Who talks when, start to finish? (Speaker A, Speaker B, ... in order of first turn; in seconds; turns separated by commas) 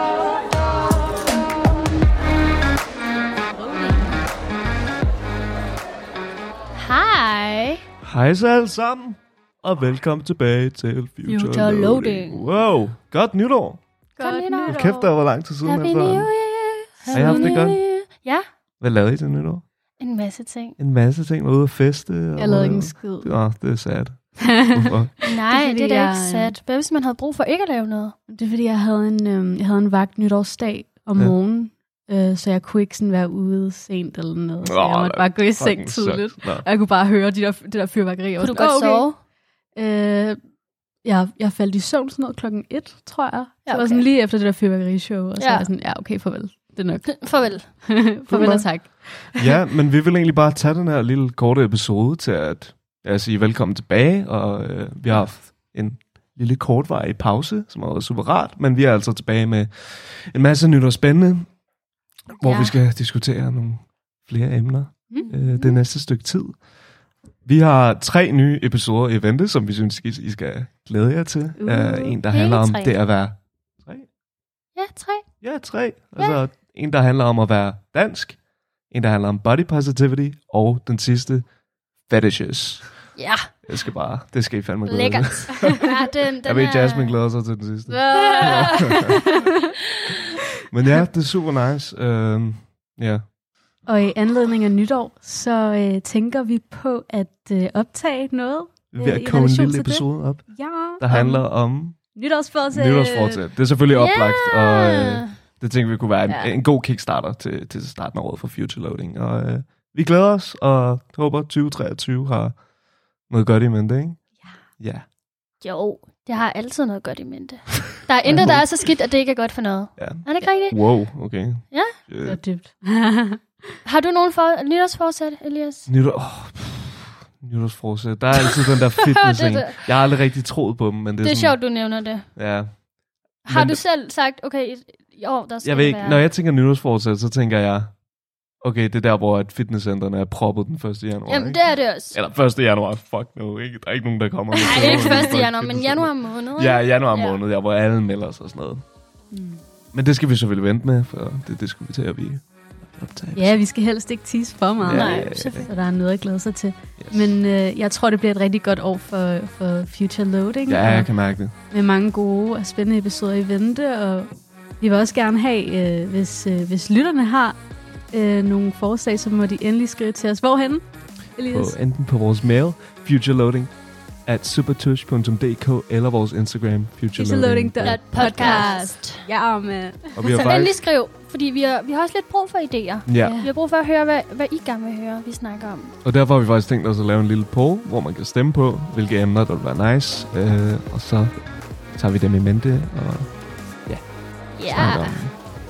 Speaker A: 6.7-7.8, Speaker B: 8.0-13.8, Speaker A: 11.3-12.6, Speaker C: 14.2-15.1, Speaker A: 14.2-14.8, Speaker B: 14.7-16.3, Speaker A: 15.6-18.4, Speaker C: 17.1-17.6, Speaker B: 17.1-17.8, Speaker B: 18.8-19.6, Speaker A: 20.0-20.8, Speaker B: 20.8-25.1, Speaker C: 22.4-23.4, Speaker C: 24.6-24.9, Speaker A: 25.2-28.1, Speaker C: 25.4-26.6, Speaker C: 28.3-40.4, Speaker B: 34.6-36.7, Speaker A: 38.4-39.2, Speaker C: 41.0-49.5, Speaker A: 43.6-44.1, Speaker A: 45.4-45.7, Speaker A: 47.1-47.7, Speaker B: 48.2-61.5, Speaker B: 62.4-66.6, Speaker A: 62.4-62.7, Speaker A: 65.2-65.8, Speaker B: 67.4-74.1, Speaker C: 71.6-72.2, Speaker A: 72.3-73.0, Speaker A: 74.8-75.2, Speaker B: 75.4-81.4, Speaker B: 82.0-83.1, Speaker A: 83.2-83.7, Speaker B: 83.6-85.8, Speaker A: 84.8-87.2, Speaker B: 86.4-89.1, Speaker C: 87.9-89.4, Speaker A: 88.1-89.1, Speaker B: 90.7-93.2, Speaker C: 93.8-101.5, Speaker B: 98.9-102.0, Speaker C: 102.1-103.4, Speaker B: 102.7-112.6, Speaker A: 103.9-105.3, Speaker C: 106.2-106.5, Speaker B: 113.3-114.3, Speaker B: 114.8-115.0, Speaker A: 115.6-122.0, Speaker B: 118.2-118.8, Speaker B: 120.0-122.4, Speaker C: 122.2-123.4, Speaker A: 123.8-125.9, Speaker B: 125.8-132.8, Speaker A: 129.1-129.9, Speaker A: 131.2-132.3, Speaker A: 133.4-136.3, Speaker B: 133.4-133.8, Speaker B: 135.6-138.0, Speaker B: 138.6-148.8, Speaker A: 141.3-142.2, Speaker A: 144.6-147.4, Speaker C: 144.8-145.3, Speaker C: 149.3-149.6, Speaker B: 149.9-153.6, Speaker C: 153.3-161.1, Speaker B: 154.8-155.7, Speaker A: 154.9-155.7, Speaker B: 157.0-157.3, Speaker B: 160.7-161.5, Speaker C: 161.7-167.6, Speaker C: 168.1-171.8, Speaker B: 171.5-173.7, Speaker B: 174.2-178.7, Speaker C: 177.1-180.2, Speaker A: 177.8-179.2, Speaker B: 180.1-180.8, Speaker A: 180.2-185.9, Speaker B: 183.1-183.4, Speaker C: 183.2-183.5, Speaker B: 186.0-191.3, Speaker B: 191.9-195.3, Speaker A: 194.6-195.2